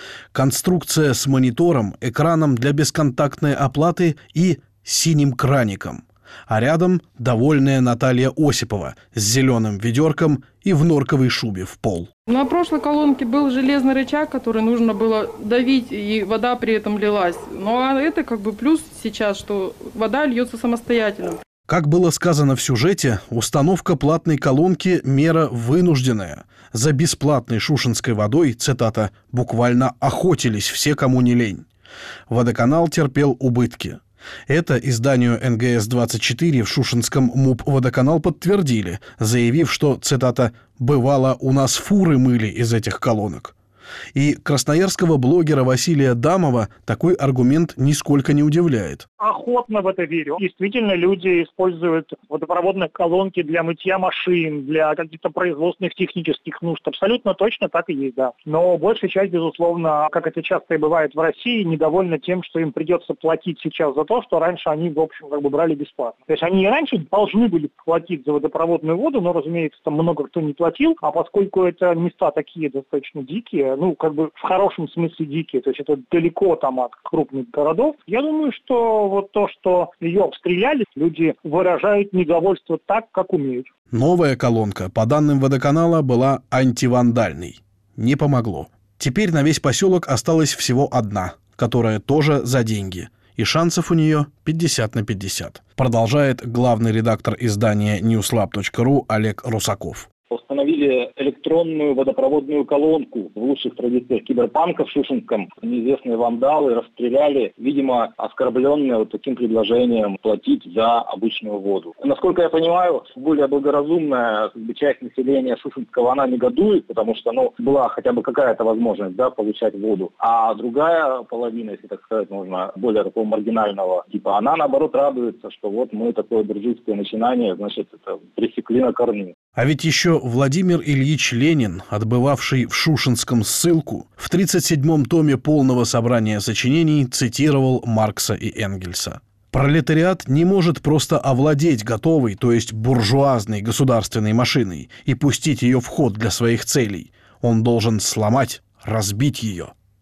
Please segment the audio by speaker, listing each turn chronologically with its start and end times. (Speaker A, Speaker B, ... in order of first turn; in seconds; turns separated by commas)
Speaker A: 0.3-12.1, Speaker B: 12.3-21.4, Speaker A: 21.7-31.6, Speaker A: 32.3-43.5, Speaker A: 44.1-49.1, Speaker C: 49.2-83.7, Speaker A: 83.9-100.1, Speaker D: 100.3-129.3, Speaker A: 129.5-149.7